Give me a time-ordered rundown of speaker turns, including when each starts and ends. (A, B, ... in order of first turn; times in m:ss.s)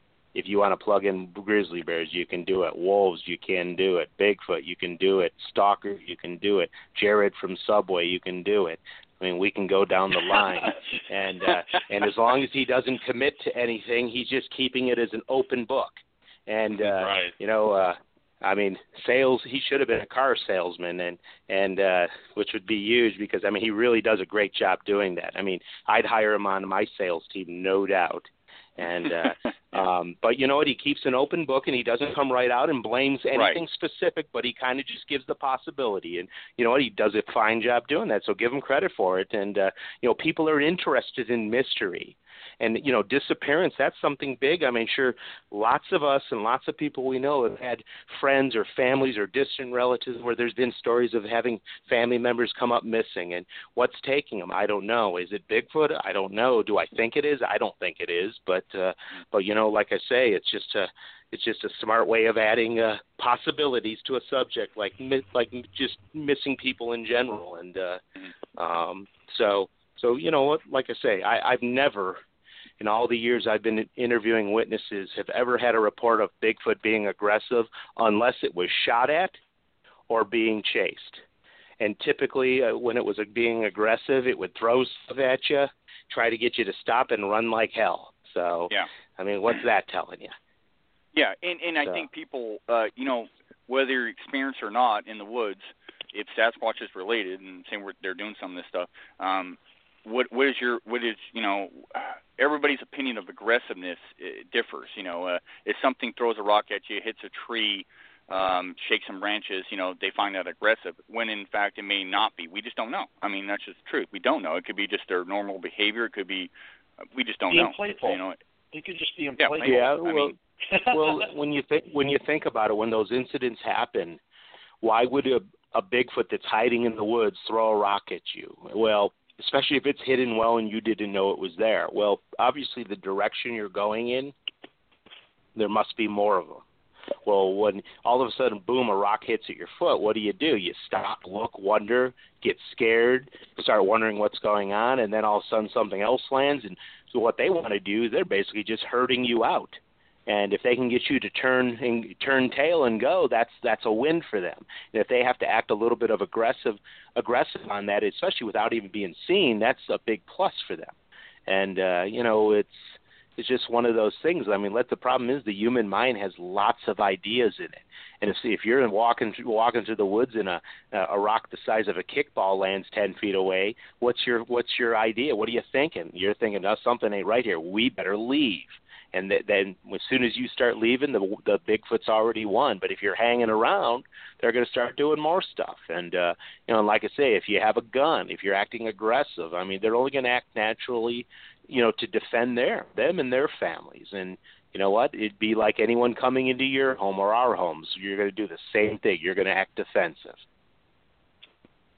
0:00.3-1:08.0 A
0:16.8-0:17.3 B
0:29.0-0:29.4 C
1:08.6-1:12.2 A
1:12.8-1:19.4 A
1:20.1-1:21.2 A
1:21.8-1:30.3 A
1:31.1-1:56.5 C
1:57.1-1:58.4 C
1:57.5-1:58.2 B
1:58.7-1:59.9 B
1:59.4-2:00.3 C
1:59.6-2:00.3 A
2:00.7-2:01.2 B
2:00.8-2:04.2 A
2:04.8-2:14.3 A
2:15.5-2:16.6 A
2:17.2-2:40.9 A
2:41.5-3:20.4 A